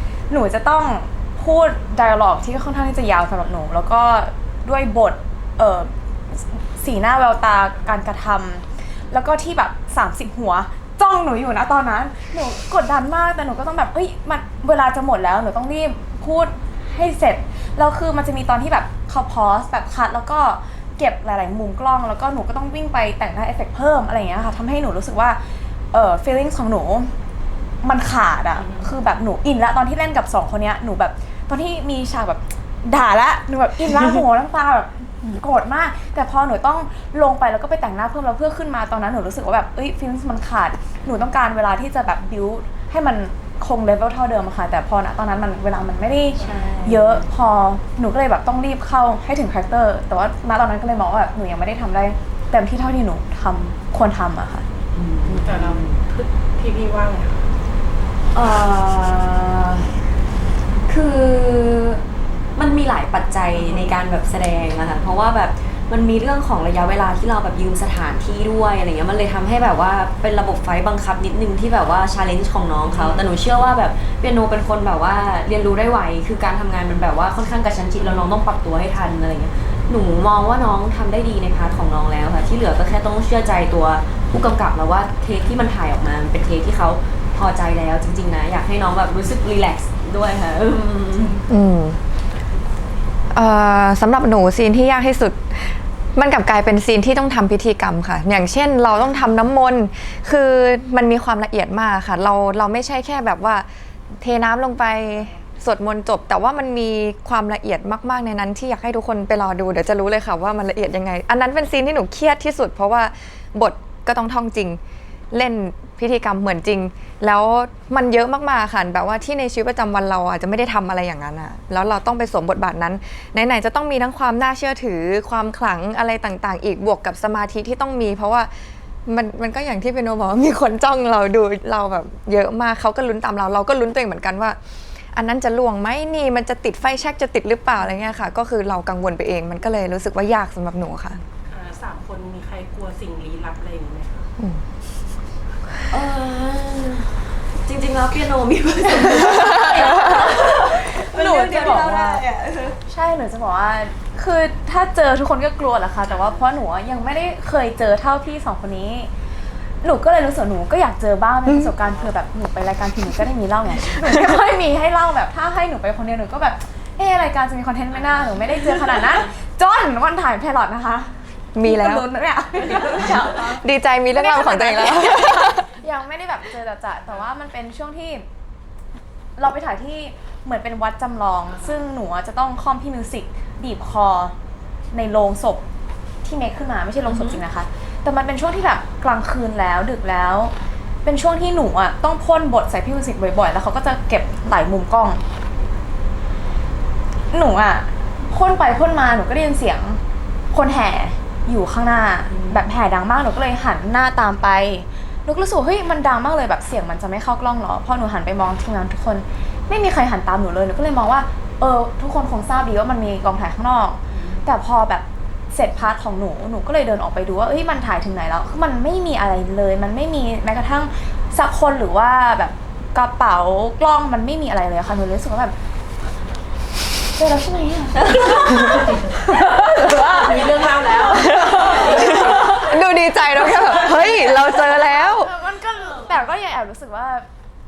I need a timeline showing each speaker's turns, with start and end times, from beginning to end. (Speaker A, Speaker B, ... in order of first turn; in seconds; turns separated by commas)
Speaker A: 0.3-25.4, Speaker A: 25.9-27.1, Speaker A: 27.8-54.6, Speaker B: 28.6-28.9, Speaker C: 46.4-47.2, Speaker C: 54.9-56.0, Speaker B: 55.4-57.5, Speaker C: 58.3-59.9, Speaker C: 60.9-62.0, Speaker C: 62.5-91.5, Speaker B: 63.6-63.9, Speaker B: 72.9-73.7, Speaker B: 78.0-78.3, Speaker D: 91.5-92.0, Speaker D: 93.3-114.8, Speaker D: 115.3-128.5, Speaker D: 129.1-134.6, Speaker D: 135.1-141.2, Speaker B: 141.5-144.3, Speaker C: 145.9-152.8, Speaker A: 149.4-152.2, Speaker A: 152.9-159.1, Speaker A: 159.8-178.2, Speaker D: 171.5-172.1, Speaker D: 173.0-175.7, Speaker A: 179.4-184.3, Speaker A: 184.9-185.7, Speaker A: 186.2-195.2, Speaker C: 187.1-187.4, Speaker A: 197.3-200.0, Speaker A: 200.5-225.5, Speaker B: 214.1-214.4, Speaker A: 227.1-232.7, Speaker C: 227.9-228.7, Speaker B: 228.2-229.1, Speaker B: 230.1-232.7, Speaker D: 231.1-235.3, Speaker C: 231.1-232.7, Speaker A: 233.3-237.2, Speaker C: 233.4-234.8